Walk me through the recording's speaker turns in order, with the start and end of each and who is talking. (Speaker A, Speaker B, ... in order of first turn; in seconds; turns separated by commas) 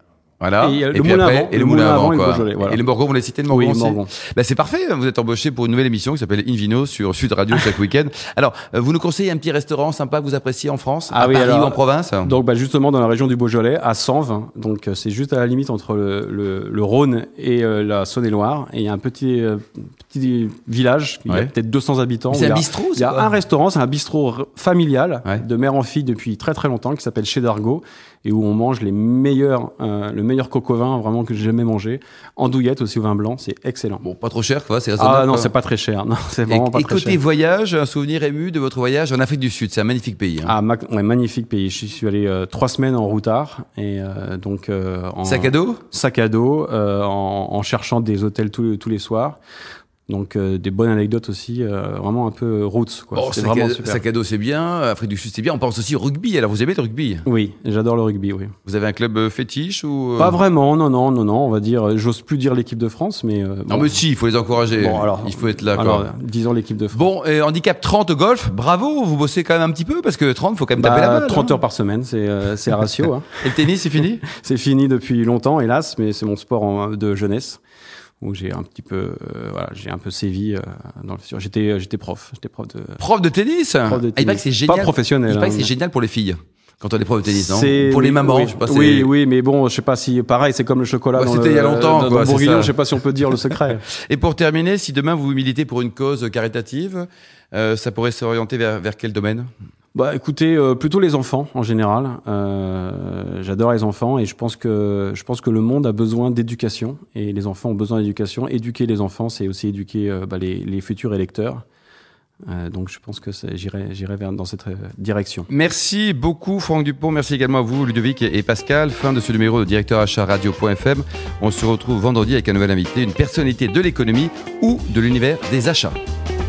Speaker A: 0.4-12.3, Speaker B: 0.6-2.8, Speaker B: 3.5-4.1, Speaker B: 11.1-34.0, Speaker A: 22.3-23.3, Speaker A: 34.0-35.5, Speaker B: 35.0-37.2, Speaker A: 36.5-40.5, Speaker B: 40.5-49.4, Speaker A: 45.2-45.8, Speaker B: 50.1-54.0, Speaker A: 53.1-57.3, Speaker B: 57.3-58.5, Speaker A: 58.6-60.4, Speaker B: 60.2-64.0, Speaker A: 63.7-66.1, Speaker B: 64.8-67.0, Speaker A: 66.9-71.6, Speaker B: 70.8-73.5, Speaker A: 73.4-74.2, Speaker B: 74.2-77.6, Speaker B: 78.2-83.0, Speaker A: 83.0-89.1, Speaker B: 83.9-85.7, Speaker B: 87.3-93.8, Speaker A: 91.1-92.8, Speaker A: 93.5-99.5, Speaker B: 99.9-111.6, Speaker B: 112.5-115.5, Speaker A: 115.5-126.0